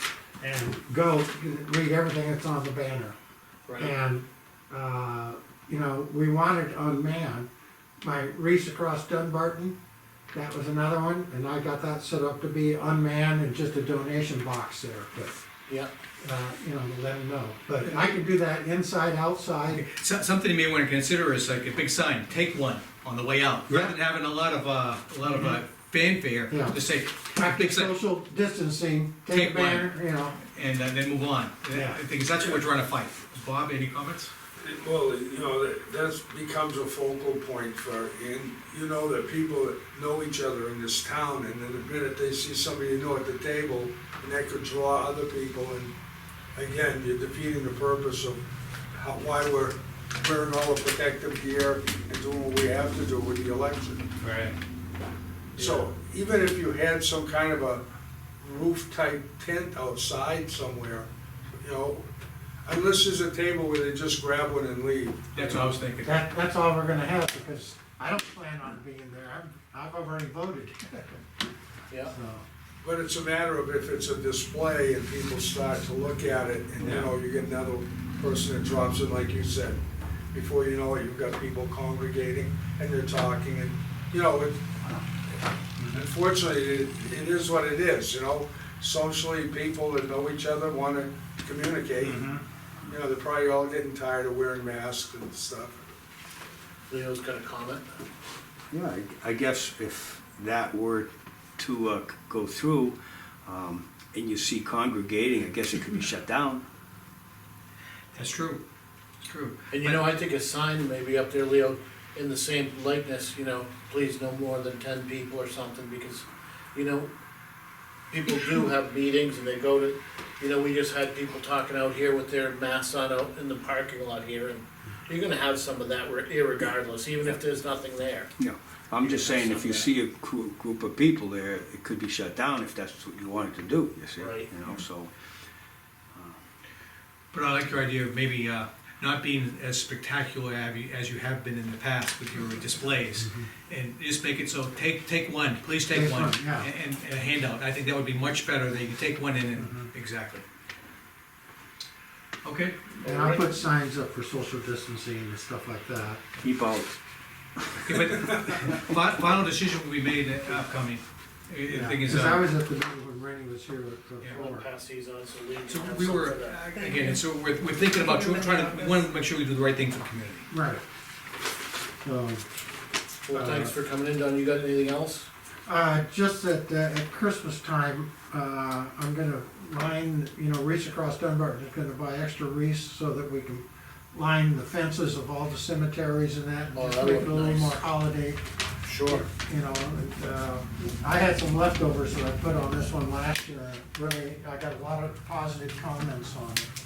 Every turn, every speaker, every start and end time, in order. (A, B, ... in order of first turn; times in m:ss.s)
0:00.4-0:03.2 A
0:03.7-0:03.9 B
0:03.8-0:07.5 A
0:08.0-0:09.8 A
0:10.3-0:15.4 A
0:16.2-0:19.8 A
0:19.7-0:27.9 C
0:23.7-0:23.9 A
0:25.3-0:25.6 A
0:26.5-0:30.4 A
0:29.3-0:29.9 C
0:30.4-0:34.3 C
0:31.7-0:32.0 A
0:34.6-0:45.9 D
0:46.6-0:48.4 D
0:48.9-0:54.0 D
0:54.2-0:54.6 C
0:55.6-0:57.8 D
0:58.4-1:01.1 D
1:01.6-1:02.0 D
1:02.6-1:05.6 D
1:05.3-1:06.2 C
1:06.0-1:11.2 A
1:12.1-1:12.4 A
1:12.8-1:19.8 D
1:16.8-1:17.1 A
1:20.3-1:24.7 D
1:25.9-1:32.2 D
1:32.0-1:32.4 A
1:32.9-1:35.8 D
1:36.9-1:38.0 B
1:38.7-1:46.6 E
1:48.1-1:48.6 C
1:49.2-1:50.0 C
1:49.7-1:57.1 B
1:58.1-2:08.3 B
2:08.4-2:15.1 E
2:09.0-2:09.9 B
2:14.2-2:14.5 B
2:16.1-2:16.4 E
2:17.3-2:30.4 C
2:23.2-2:23.5 A
2:25.9-2:26.7 A
2:29.6-2:29.9 A
2:32.4-2:33.4 C
2:33.0-2:36.2 A
2:36.4-2:37.0 E
2:37.8-2:42.5 C
2:41.7-2:44.7 A
2:44.3-2:46.7 B
2:45.7-2:50.5 C
2:50.5-2:50.8 A
2:52.0-2:52.4 A
2:53.3-2:55.3 B
2:53.3-2:53.7 A
2:55.7-3:08.4 A
3:06.7-3:07.8 B
3:08.8-3:09.3 B
3:09.1-3:16.7 A